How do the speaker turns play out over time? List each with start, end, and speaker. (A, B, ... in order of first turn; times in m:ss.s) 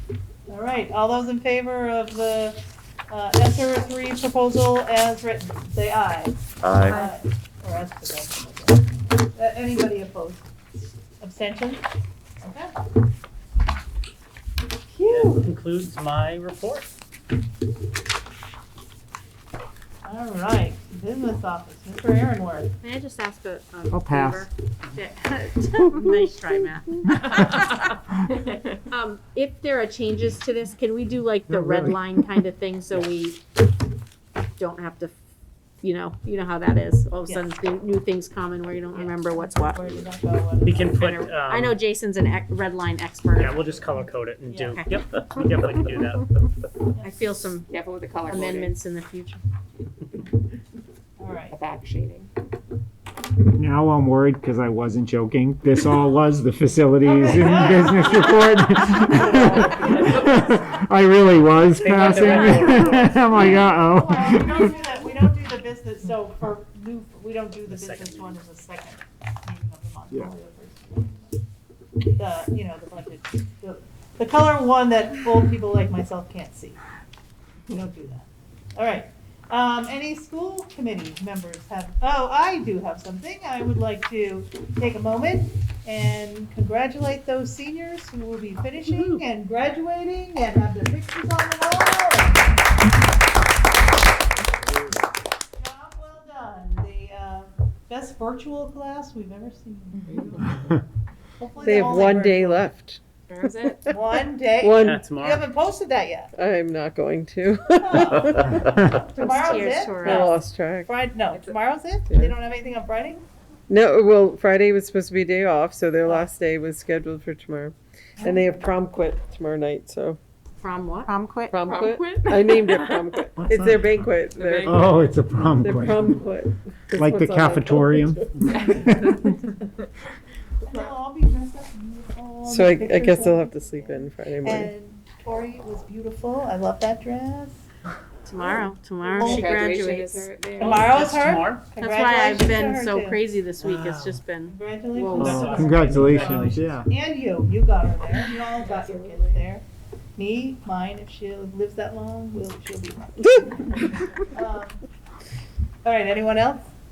0:00.5-0:10.5 A
0:11.2-0:11.9 A
0:12.4-0:12.7 A
0:14.9-0:15.5 A
0:15.0-0:16.9 B
0:20.0-0:22.7 A
0:22.8-0:27.7 C
0:23.9-0:24.5 D
0:28.9-0:33.4 C
0:31.5-0:32.2 D
0:34.6-0:35.2 C
0:35.8-0:39.8 C
0:38.9-0:41.2 A
0:40.6-0:41.8 B
0:41.0-0:44.9 C
0:43.4-0:46.3 B
0:47.0-0:47.7 C
0:47.7-0:48.7 E
0:48.2-0:49.4 C
0:51.2-0:51.6 A
0:51.5-0:52.3 E
0:53.5-1:04.6 D
0:57.0-1:00.4 A
0:59.2-0:59.7 F
1:01.8-1:03.6 F
1:01.9-1:11.4 A
1:07.7-1:08.4 B
1:12.2-1:16.8 A
1:17.7-1:32.5 A
1:35.6-1:40.8 A
1:41.4-1:42.7 A
1:41.6-1:44.0 F
1:43.3-1:43.9 E
1:43.9-1:46.3 A
1:44.6-1:45.0 F
1:44.8-1:45.4 B
1:46.3-1:48.7 F
1:47.8-1:53.2 A
1:49.2-1:50.4 C
1:50.0-1:51.0 F
1:51.2-1:51.6 E
1:52.1-1:52.4 F
1:53.7-2:00.2 F
1:58.2-1:58.4 A
2:00.6-2:01.1 C
2:01.1-2:03.1 E
2:01.5-2:04.8 F
2:03.4-2:04.1 D
2:04.3-2:05.1 E
2:04.6-2:06.2 D
2:05.6-2:08.9 F
2:06.9-2:09.4 D
2:10.6-2:17.6 A
2:12.4-2:14.7 F
2:18.2-2:20.3 C
2:19.1-2:21.1 E
2:19.2-2:19.5 A
2:20.6-2:23.2 A
2:20.6-2:21.6 B
2:21.8-2:25.8 C
2:23.6-2:24.2 B
2:24.5-2:29.6 A
2:25.1-2:26.8 B
2:25.1-2:26.9 D
2:28.5-2:29.4 E
2:30.2-2:34.8 A
2:33.2-2:33.5 F
2:35.8-2:36.7 A